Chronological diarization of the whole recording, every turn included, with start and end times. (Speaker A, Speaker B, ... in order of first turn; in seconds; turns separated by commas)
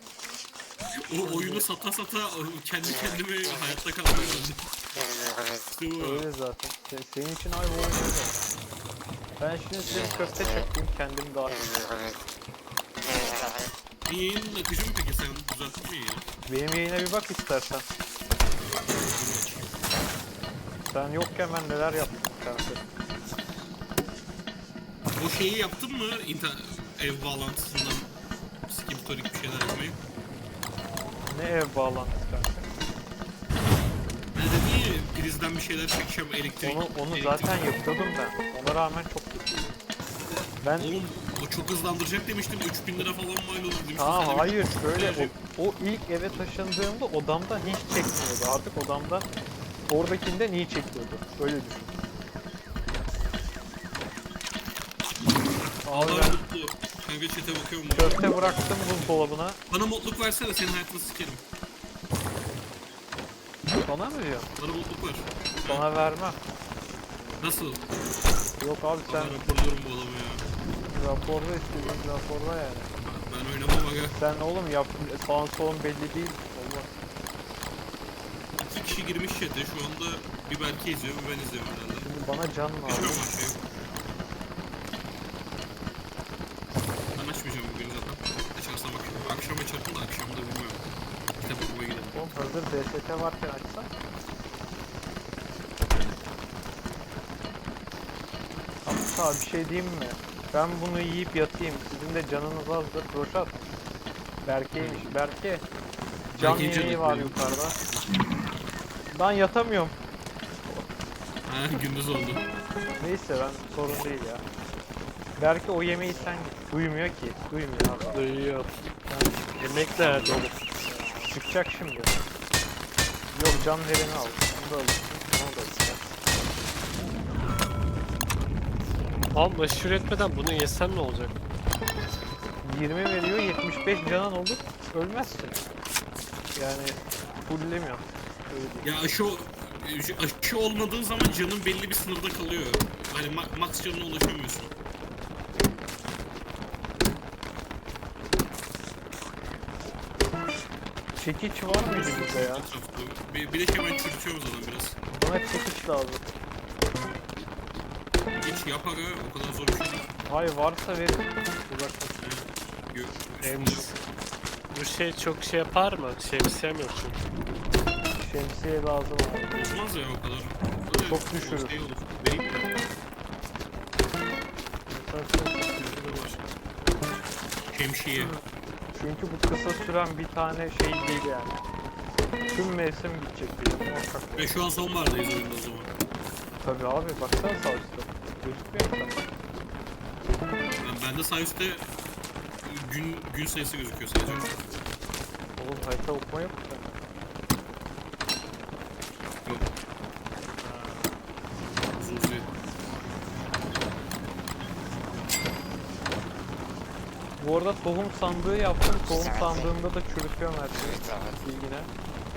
Speaker A: 1.0-4.6, Speaker B: 1.2-1.7, Speaker A: 5.8-6.3, Speaker B: 6.0-8.5, Speaker B: 9.4-11.8, Speaker A: 14.0-16.2, Speaker B: 16.4-17.9, Speaker A: 19.1-19.7, Speaker B: 20.9-22.9, Speaker A: 25.1-28.1, Speaker A: 28.7-30.0, Speaker B: 31.3-32.8, Speaker A: 34.3-37.7, Speaker B: 36.6-39.7, Speaker B: 40.6-40.9, Speaker A: 40.8-45.3, Speaker B: 44.0-49.3, Speaker B: 49.9-51.9, Speaker B: 55.8-56.4, Speaker A: 55.9-58.2, Speaker B: 57.9-59.6, Speaker A: 59.0-61.4, Speaker B: 63.8-64.5, Speaker A: 64.6-65.8, Speaker B: 65.7-66.4, Speaker A: 67.4-67.8, Speaker B: 68.6-69.4, Speaker A: 69.1-70.4, Speaker B: 70.9-72.9, Speaker A: 73.0-74.2, Speaker B: 74.2-76.9, Speaker A: 78.6-82.1, Speaker B: 82.0-83.2, Speaker A: 82.8-83.6, Speaker A: 87.1-90.8, Speaker A: 91.4-92.2, Speaker B: 92.1-93.9, Speaker A: 95.9-96.2, Speaker B: 98.8-103.6, Speaker B: 104.4-105.7, Speaker A: 104.8-105.1, Speaker A: 106.3-107.3, Speaker B: 106.4-107.8, Speaker B: 109.1-110.0, Speaker B: 110.6-110.9, Speaker A: 111.5-112.4, Speaker B: 113.0-114.4, Speaker B: 115.4-118.2, Speaker C: 118.1-118.7, Speaker B: 119.1-119.5, Speaker C: 119.6-120.5, Speaker A: 120.0-120.4, Speaker B: 121.2-122.2, Speaker B: 123.3-126.2, Speaker C: 129.3-131.4, Speaker B: 132.6-135.6, Speaker B: 136.5-138.9, Speaker A: 138.8-144.7, Speaker B: 151.2-152.7, Speaker A: 151.8-154.9, Speaker B: 155.1-156.3, Speaker A: 158.4-160.1, Speaker B: 160.2-162.2, Speaker A: 162.2-163.9, Speaker C: 163.4-163.9, Speaker C: 164.7-167.2, Speaker B: 168.1-169.6, Speaker A: 169.5-172.8, Speaker B: 171.1-171.8, Speaker B: 174.9-176.4, Speaker A: 175.8-176.4, Speaker A: 177.7-178.3, Speaker B: 178.9-181.6, Speaker B: 182.5-184.5, Speaker A: 184.3-185.9, Speaker B: 186.6-189.3, Speaker A: 190.8-191.8, Speaker A: 192.6-194.6, Speaker B: 195.6-197.0, Speaker B: 200.6-201.2, Speaker A: 201.9-202.5, Speaker B: 207.4-211.9